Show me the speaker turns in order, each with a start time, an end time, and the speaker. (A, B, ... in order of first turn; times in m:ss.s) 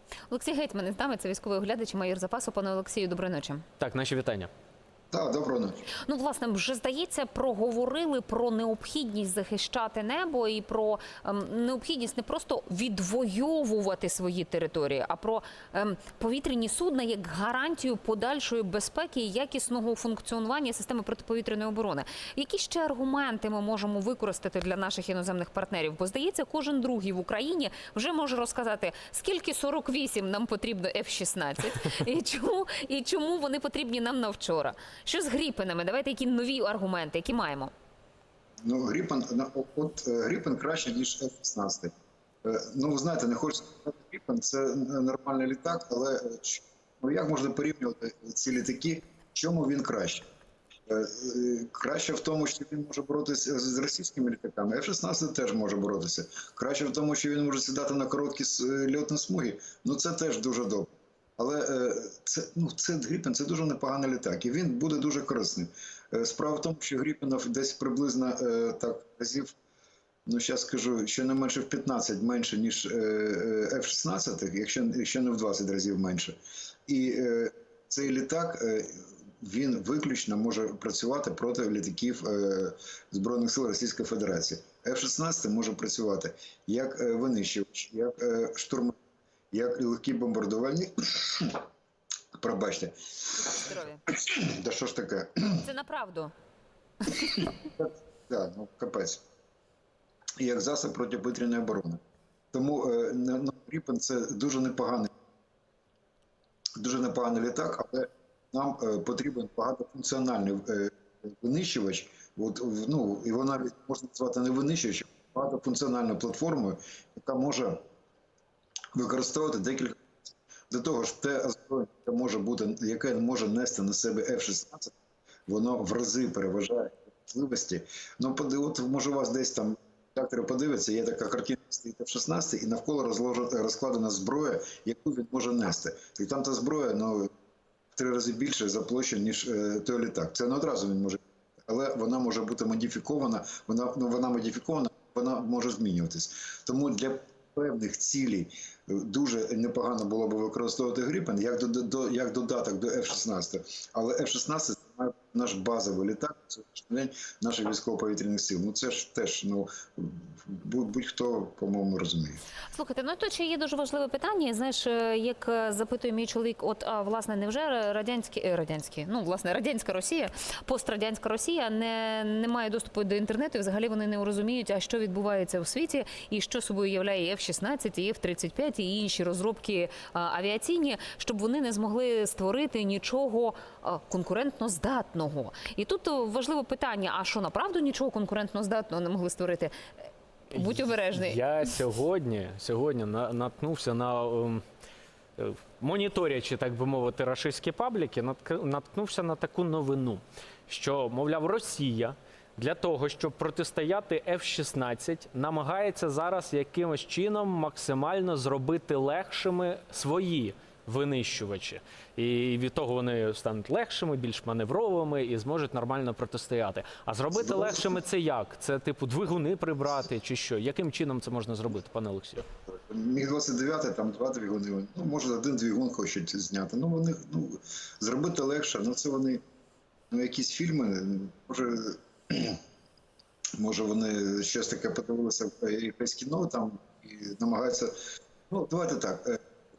0:00.3-0:03.6 A
0:03.8-0:04.5 B
0:05.1-0:05.8 C
0:06.0-0:37.7 A
0:38.6-0:41.9 C
0:42.4-0:50.3 C
0:50.9-1:09.5 C
1:10.3-1:16.4 C
1:16.9-1:29.0 C
1:29.5-1:31.6 C
1:32.4-1:35.6 C
1:33.4-1:34.0 A
1:35.6-1:36.3 A
1:37.2-1:39.2 C
1:40.4-1:42.0 C
1:42.5-1:45.1 C
1:46.8-1:57.8 C
1:58.9-2:05.0 C
2:05.5-2:17.3 C
2:18.0-2:42.4 C
2:42.7-3:09.7 A
3:10.5-3:14.6 B
3:10.5-3:11.5 A
3:15.4-3:42.4 B
3:37.4-3:38.0 C
3:42.7-3:49.4 C
3:50.1-3:52.6 C
3:53.6-3:57.9 C
3:58.5-3:59.4 C